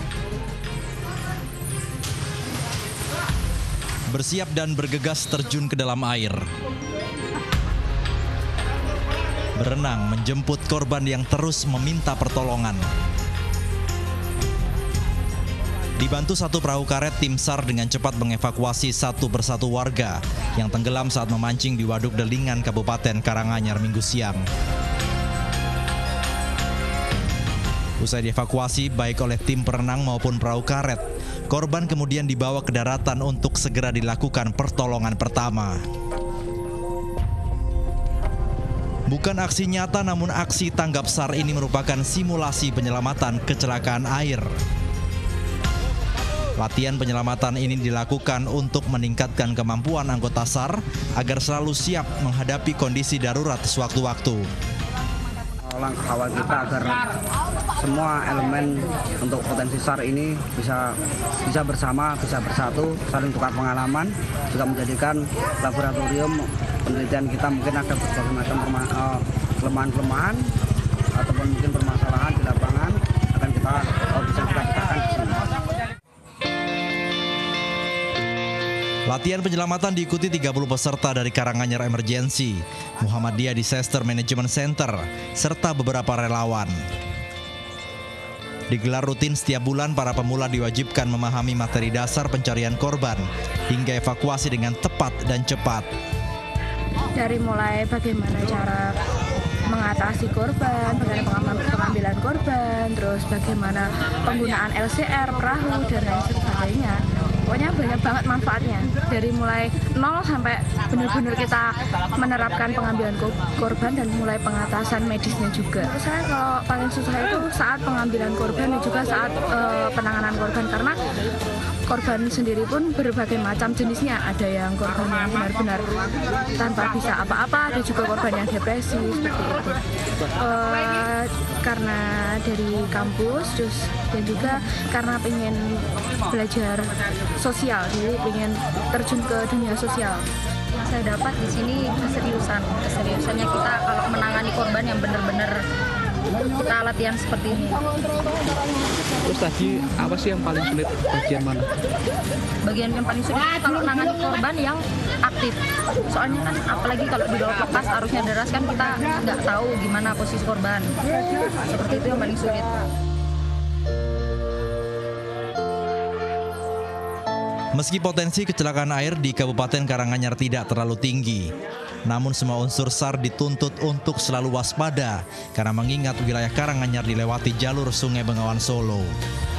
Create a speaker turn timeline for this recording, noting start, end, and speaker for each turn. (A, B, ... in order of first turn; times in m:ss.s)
0:04.1-0:06.4 A
0:09.6-0:12.8 A
0:16.0-0:24.4 A
0:28.0-0:35.8 A
0:39.1-0:44.5 A
0:46.6-0:54.4 A
0:55.6-0:57.0 B
0:57.8-1:00.9 B
1:01.4-1:10.5 B
1:11.2-1:15.4 B
1:19.1-1:26.8 A
1:28.7-1:35.9 A
1:37.1-1:38.9 C
1:39.7-2:01.0 C
2:01.9-2:20.2 C
2:20.7-2:25.6 D
2:26.5-2:28.2 D
2:29.2-2:31.7 E
2:32.6-2:40.9 D
2:41.6-2:42.7 D
2:47.7-2:51.5 A
2:52.1-2:59.1 A